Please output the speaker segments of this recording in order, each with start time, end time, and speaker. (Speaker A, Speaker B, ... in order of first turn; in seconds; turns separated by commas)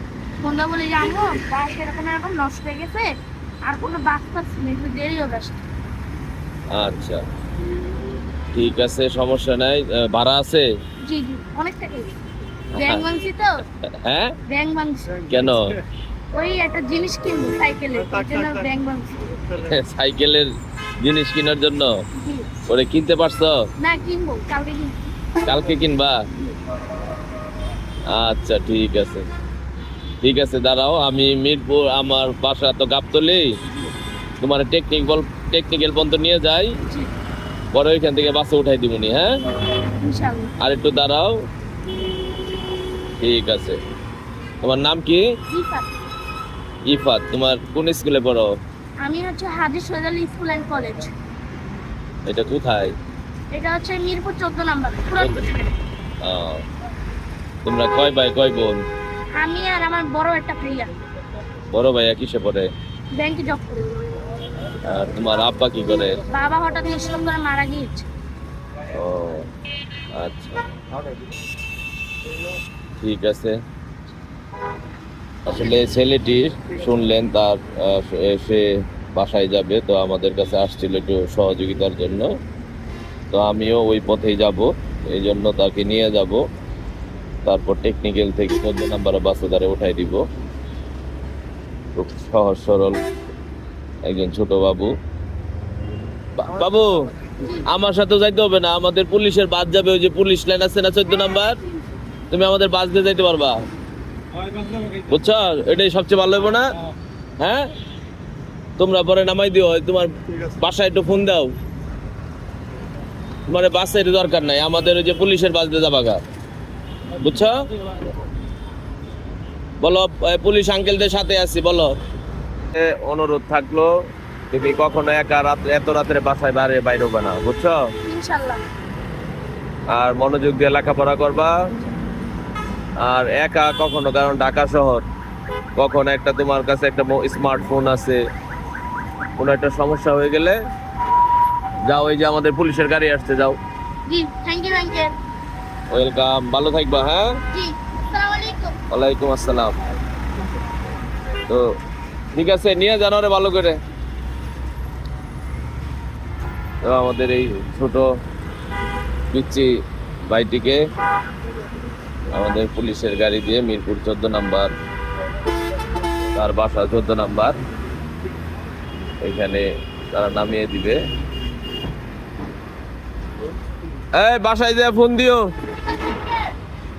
Speaker A: 0.4-3.1, Speaker A: 3.6-5.6, Speaker B: 6.7-7.2, Speaker B: 8.5-10.6, Speaker A: 11.0-12.1, Speaker B: 12.8-13.0, Speaker A: 12.8-13.6, Speaker B: 13.9-14.3, Speaker A: 14.5-15.4, Speaker B: 15.3-15.7, Speaker A: 16.3-19.5, Speaker B: 19.5-20.5, Speaker B: 21.0-21.9, Speaker A: 22.1-22.5, Speaker B: 22.7-23.6, Speaker A: 23.8-25.1, Speaker B: 25.4-26.2, Speaker B: 28.1-29.2, Speaker B: 30.2-33.5, Speaker B: 34.4-36.7, Speaker A: 36.9-37.1, Speaker B: 37.7-39.3, Speaker A: 40.0-40.5, Speaker B: 40.6-41.4, Speaker B: 43.2-43.8, Speaker B: 44.6-45.2, Speaker A: 45.5-45.9, Speaker B: 46.9-48.5, Speaker A: 49.0-51.1, Speaker B: 52.2-52.9, Speaker A: 53.5-55.7, Speaker B: 56.2-56.6, Speaker B: 57.6-58.8, Speaker A: 59.4-60.9, Speaker B: 61.7-62.7, Speaker A: 63.1-63.9, Speaker B: 64.8-66.2, Speaker A: 66.3-68.1, Speaker B: 68.9-69.5, Speaker B: 70.1-70.6, Speaker B: 73.0-73.6, Speaker B: 75.5-82.3, Speaker B: 83.3-86.4, Speaker B: 87.4-90.2, Speaker B: 92.0-93.0, Speaker B: 94.0-94.9, Speaker B: 96.3-96.9, Speaker A: 97.4-97.7, Speaker B: 97.6-101.6, Speaker A: 101.1-101.9, Speaker B: 102.3-103.6, Speaker B: 105.1-106.7, Speaker B: 107.4-107.7, Speaker B: 108.8-111.5, Speaker B: 113.5-116.2, Speaker B: 117.2-117.6, Speaker B: 119.8-122.0, Speaker B: 122.7-123.9, Speaker B: 124.5-127.8, Speaker A: 128.0-128.6, Speaker B: 129.9-131.7, Speaker B: 133.0-135.0, Speaker B: 135.8-138.2, Speaker B: 139.4-140.6, Speaker B: 141.8-143.6, Speaker A: 144.1-145.1, Speaker B: 145.9-147.3, Speaker A: 147.5-148.8, Speaker B: 148.9-149.8, Speaker B: 152.3-153.8, Speaker B: 156.8-158.1, Speaker B: 159.3-159.7, Speaker B: 160.3-160.8, Speaker B: 162.3-164.7, Speaker B: 166.3-167.6, Speaker B: 169.2-171.0, Speaker B: 174.2-175.5